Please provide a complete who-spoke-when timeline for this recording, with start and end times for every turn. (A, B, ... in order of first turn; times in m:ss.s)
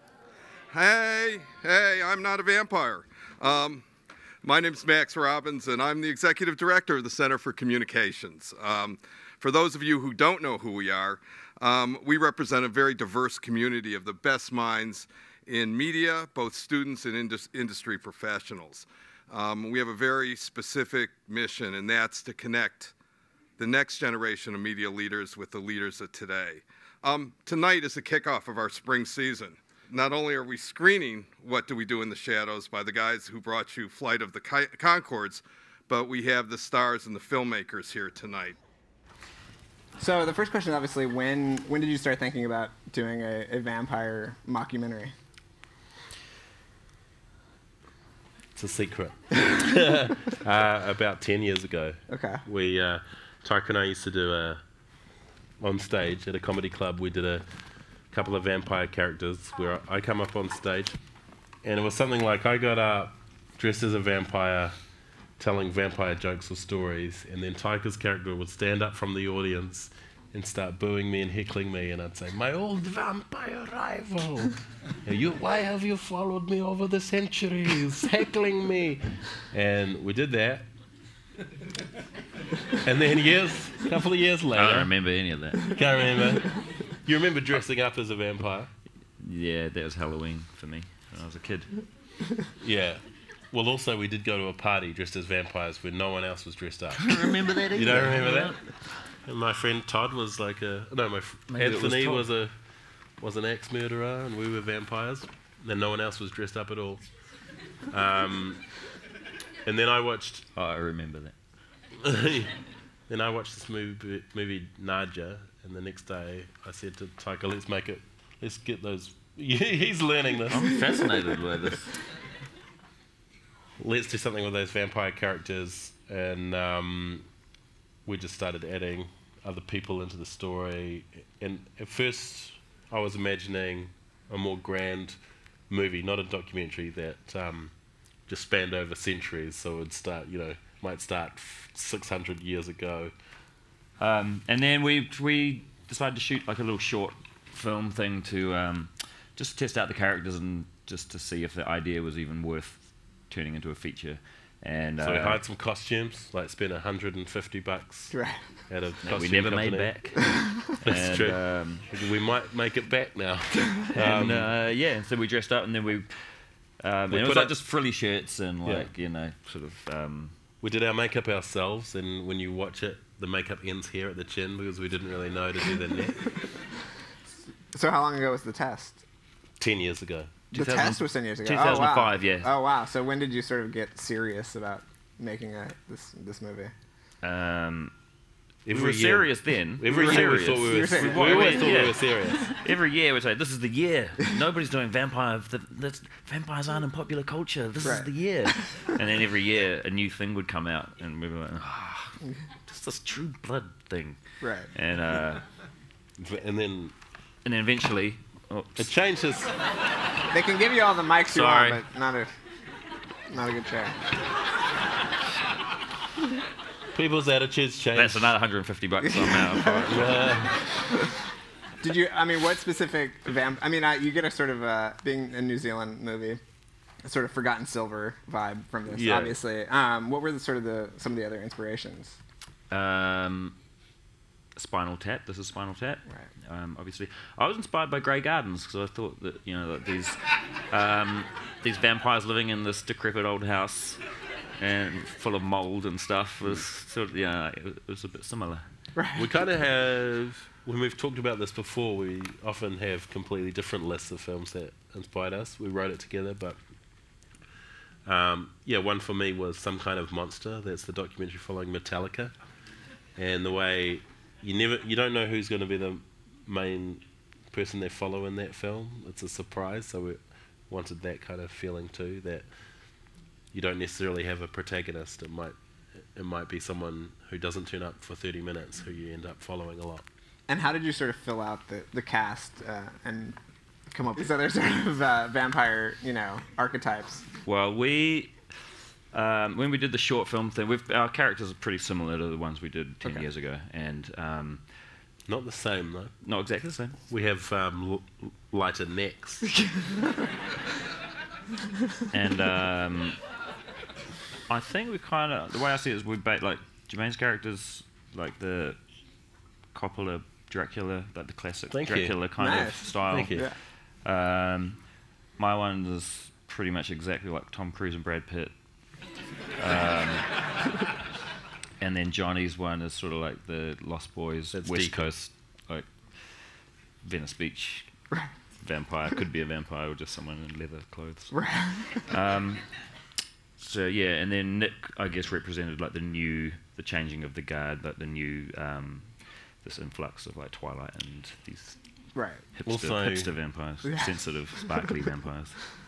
0:00.7-0:03.8 A
0:04.4-0:22.9 A
0:23.6-0:38.6 A
0:40.0-0:45.1 B
0:48.6-0:54.6 C
0:52.1-0:52.4 B
0:55.6-0:57.4 C
0:58.1-1:01.0 C
1:01.6-1:04.7 C
1:05.4-1:20.7 C
1:22.8-1:24.9 C
1:24.5-1:25.8 D
1:25.6-1:28.7 C
1:29.2-1:31.7 D
1:32.6-1:38.6 C
1:36.9-1:38.6 D
1:39.2-1:42.5 C
1:41.5-1:42.3 D
1:43.2-1:47.0 C
1:47.9-1:48.6 C
1:49.6-1:50.4 C
1:50.5-1:51.3 D
1:52.0-1:52.5 C
1:53.1-2:00.7 C
2:00.5-2:02.0 D
2:03.8-2:07.2 C
2:08.0-2:15.2 C
2:15.7-2:17.7 C
2:18.3-2:23.1 C
2:24.0-2:35.4 D
2:35.0-2:38.2 C
2:38.1-2:38.6 B
2:38.7-2:39.9 C
2:39.0-2:41.9 D
2:40.8-2:44.5 C
2:43.9-2:46.1 D
2:46.8-2:50.3 D
2:47.1-2:47.6 C
2:48.6-2:48.9 C
2:50.6-2:56.3 C
2:57.7-2:59.0 B
2:59.6-3:00.3 C
3:00.5-3:06.7 B
3:00.5-3:02.5 D
3:07.2-3:07.9 D
3:08.6-3:12.4 C
3:08.7-3:24.2 D
3:09.9-3:12.4 B
3:17.8-3:18.9 B
3:24.4-3:24.7 B
3:24.7-3:25.4 D
3:26.2-3:26.9 C
3:27.4-3:28.9 D
3:28.8-3:29.5 C
3:30.3-3:32.4 B
3:31.3-3:31.8 D
3:33.3-3:34.0 B
3:37.0-3:38.3 C
3:37.9-3:40.1 D
3:39.0-3:41.0 B
3:39.9-3:40.6 C
3:41.8-3:46.4 B
3:47.0-3:52.2 B
3:48.9-3:49.4 C
3:52.7-3:53.6 D
3:54.6-4:00.2 D
4:00.7-4:04.0 D
4:04.6-4:08.6 D
4:08.9-4:09.3 B
4:09.2-4:16.6 C
4:18.0-4:22.3 C
4:23.2-4:32.4 C
4:33.5-4:35.6 C
4:36.1-4:40.0 C
4:40.5-4:43.4 B
4:43.9-4:47.2 B
4:47.4-4:48.3 D
4:49.1-4:54.6 D
4:55.3-4:56.1 C
4:56.2-4:57.0 D
4:57.1-4:59.5 C
4:59.5-5:00.1 B
5:02.1-5:03.2 D
5:04.5-5:08.8 D
5:09.7-5:13.5 D
5:11.7-5:12.2 C
5:12.4-5:13.6 B
5:13.1-5:13.4 C
5:14.0-5:14.8 D
5:15.4-5:18.5 D
5:19.6-5:20.3 D
5:21.8-5:26.5 D
5:24.5-5:25.1 C
5:27.0-5:27.9 D
5:28.6-5:31.4 D
5:31.3-5:32.0 B
5:32.1-5:32.6 D
5:33.6-5:41.8 D
5:42.1-5:42.4 B
5:42.5-5:45.6 D
5:42.6-5:43.3 C
5:43.8-5:44.9 B